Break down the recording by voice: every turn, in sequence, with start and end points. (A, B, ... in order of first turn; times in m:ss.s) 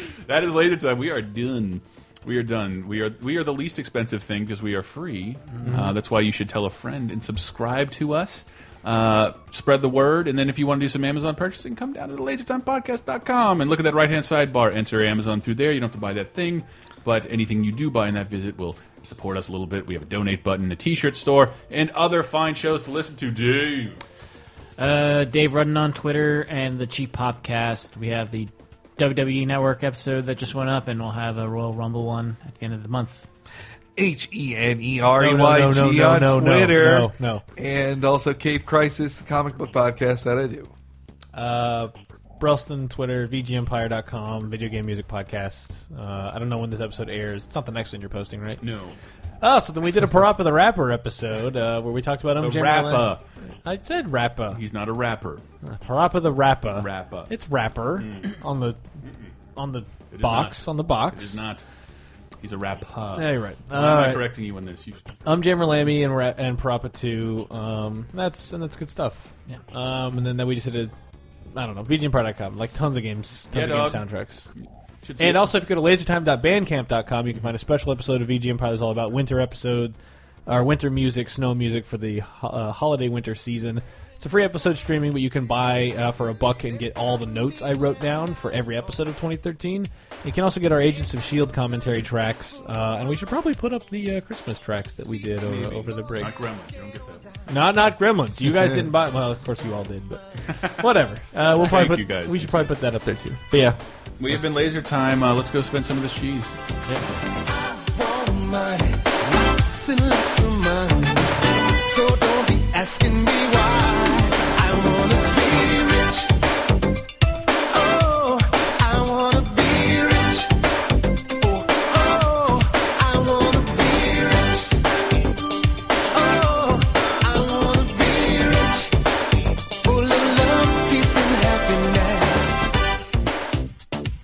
0:00.2-0:24.0 A
0:05.6-0:05.9 B
0:24.8-0:33.2 C
0:34.0-0:40.7 D
0:35.2-0:37.4 B
0:41.3-0:48.6 B
0:48.6-0:49.0 A
0:49.4-0:54.6 B
0:52.4-0:53.2 A
0:54.5-0:55.4 A
0:55.6-0:58.8 B
0:56.7-0:57.3 A
0:58.0-0:58.4 A
0:59.0-0:59.3 A
0:59.5-1:01.4 B
1:00.1-1:01.6 A
1:02.4-1:05.1 A
1:03.1-1:04.3 B
1:05.2-1:10.9 B
1:11.5-1:14.5 B
1:13.5-1:14.1 A
1:14.6-1:15.5 A
1:15.2-1:20.0 B
1:20.5-1:36.3 B
1:35.4-1:37.3 A
1:37.5-1:43.8 B
1:38.5-1:38.9 D
1:40.5-1:40.8 A
1:41.5-1:42.7 A
1:44.2-1:46.6 A
1:47.9-1:51.1 E
1:51.8-1:56.3 E
1:57.7-2:00.5 E
2:01.4-2:04.6 E
2:06.1-2:08.9 E
2:09.8-2:12.6 E